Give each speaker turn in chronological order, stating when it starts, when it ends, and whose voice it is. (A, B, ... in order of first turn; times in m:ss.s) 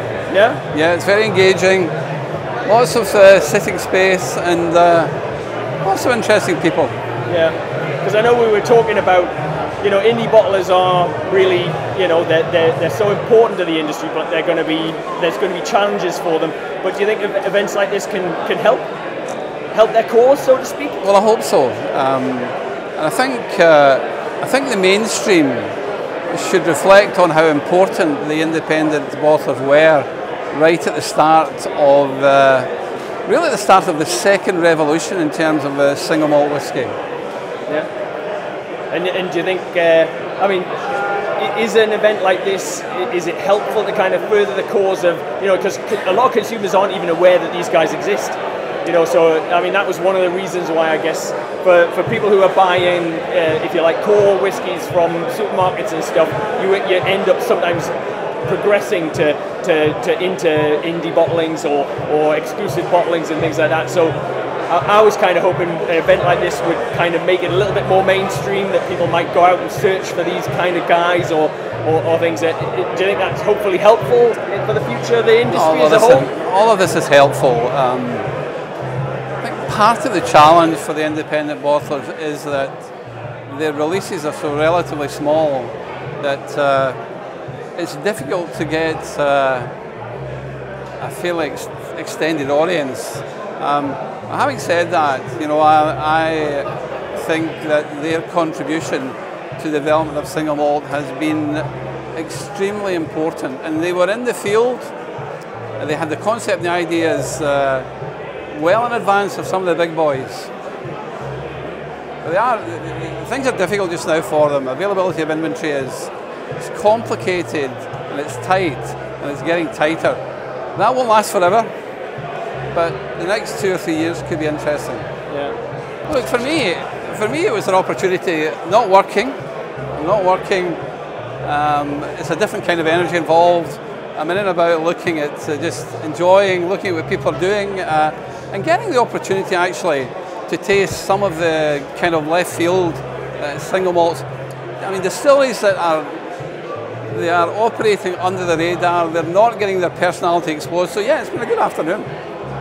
0:00.3-0:00.6 A
0:00.7-0:01.9 B
0:02.6-0:05.1 B
0:05.8-0:06.9 B
0:07.3-0:18.9 A
0:19.7-0:21.0 A
0:21.0-0:25.7 B
0:26.3-0:32.7 B
0:33.3-0:36.9 B
0:38.9-0:40.7 A
0:41.4-0:57.9 A
0:58.4-1:04.2 A
1:04.7-1:16.3 A
1:15.5-1:18.3 B
1:19.4-1:22.9 B
1:23.5-1:27.0 B
1:27.8-1:29.7 B
1:31.0-1:44.9 B
1:45.8-1:47.9 B
1:48.5-1:50.5 B
1:52.2-2:00.2 B
2:00.7-2:01.7 B
2:02.7-2:05.0 B
2:05.3-2:05.6 A
2:06.1-2:09.4 B
2:10.0-2:10.8 B
2:11.4-2:24.2 B
2:24.8-2:26.1 B
2:27.1-2:32.1 B